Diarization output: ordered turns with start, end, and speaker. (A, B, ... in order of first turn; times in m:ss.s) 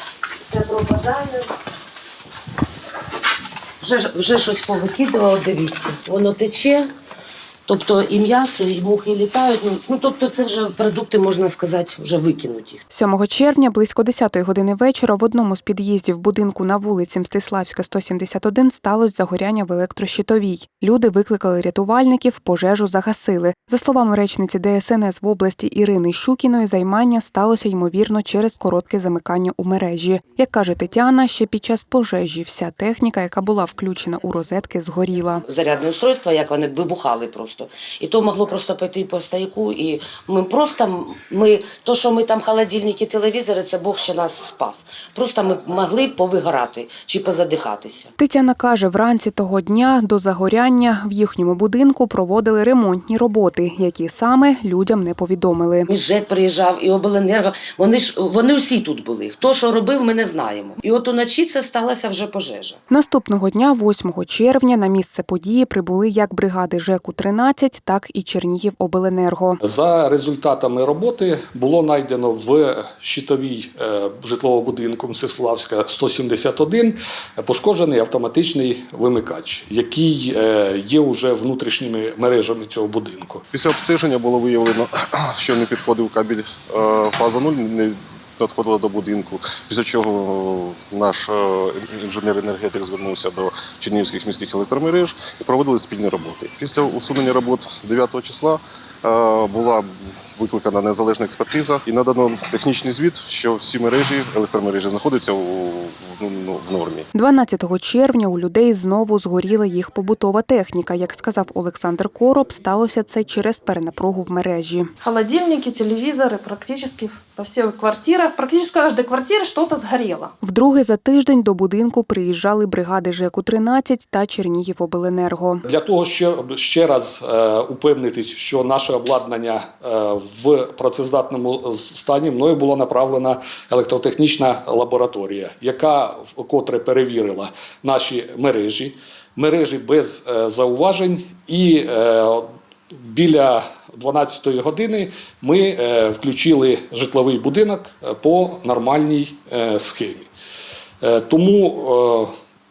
0:00.4-0:01.5 A
0:03.8-0:06.9 A
0:07.7-0:12.8 A
0:12.9-0:35.4 B
0:35.5-0:48.1 A
0:48.2-0:55.9 B
0:55.9-1:02.8 A
1:02.9-1:09.6 B
1:09.6-1:23.4 C
1:23.5-1:47.1 D
1:47.1-1:54.9 B
1:55.0-2:00.3 E
2:00.4-2:05.6 B
2:05.7-2:30.3 C
2:31.0-2:32.3 C